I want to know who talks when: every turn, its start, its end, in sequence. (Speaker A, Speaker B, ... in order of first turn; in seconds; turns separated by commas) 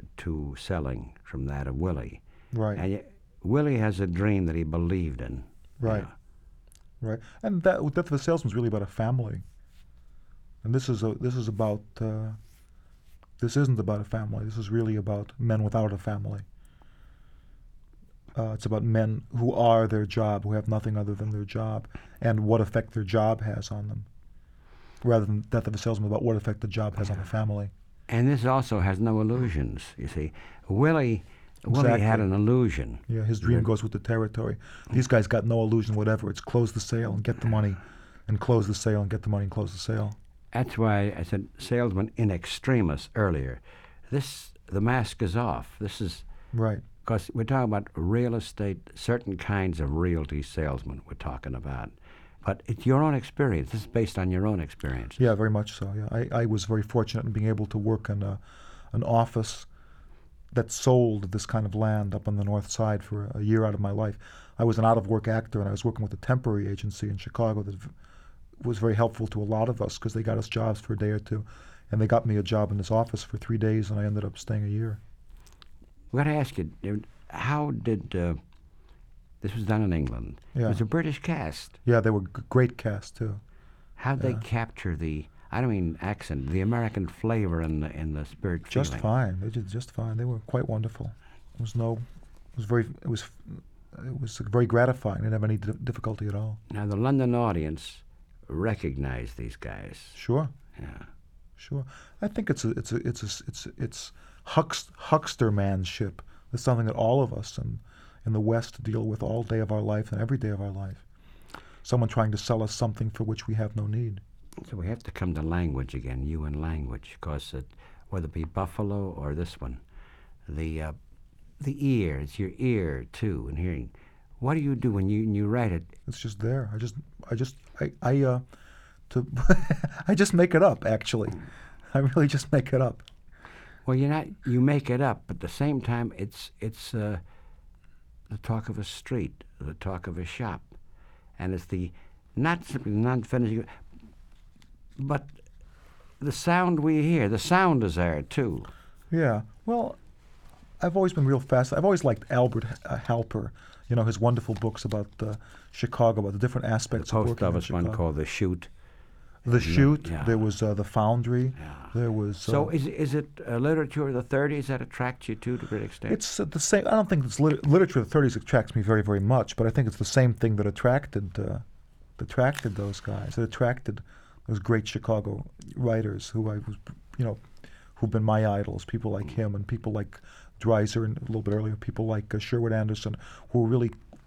Speaker A: 0.2-2.2, Speaker B: 2.5-2.8, Speaker A: 2.8-6.1, Speaker B: 5.8-6.1, Speaker B: 7.0-9.4, Speaker B: 10.6-12.4, Speaker B: 13.4-16.4, Speaker B: 18.4-24.1, Speaker B: 25.0-27.7, Speaker A: 28.1-33.7, Speaker B: 31.7-32.3, Speaker B: 33.1-40.2, Speaker A: 40.5-46.2, Speaker B: 46.5-46.8, Speaker A: 47.0-55.2, Speaker B: 55.2-58.4, Speaker B: 58.9-59.7, Speaker B: 60.5-67.9, Speaker B: 68.6-75.0, Speaker A: 76.1-78.4, Speaker A: 79.4-81.8, Speaker B: 80.5-80.8, Speaker B: 81.8-83.4, Speaker A: 84.0-89.1, Speaker B: 88.7-92.0, Speaker B: 92.6-96.6, Speaker A: 96.7-100.2, Speaker B: 100.2-100.5, Speaker A: 100.8-101.1, Speaker B: 101.6-111.0, Speaker B: 111.8-114.2, Speaker A: 114.6-119.8, Speaker A: 120.5-121.0, Speaker A: 121.6-125.9, Speaker B: 126.1-128.4, Speaker B: 129.1-133.1, Speaker A: 133.9-137.2, Speaker A: 138.3-140.7, Speaker A: 141.4-143.8, Speaker A: 145.0-145.3, Speaker A: 146.2-148.7, Speaker B: 149.1-150.0, Speaker B: 150.8-158.0, Speaker A: 157.0-158.7, Speaker B: 159.4-162.7, Speaker A: 159.5-160.4, Speaker A: 162.4-166.2, Speaker B: 166.1-171.6, Speaker B: 172.2-177.4, Speaker B: 178.0-184.0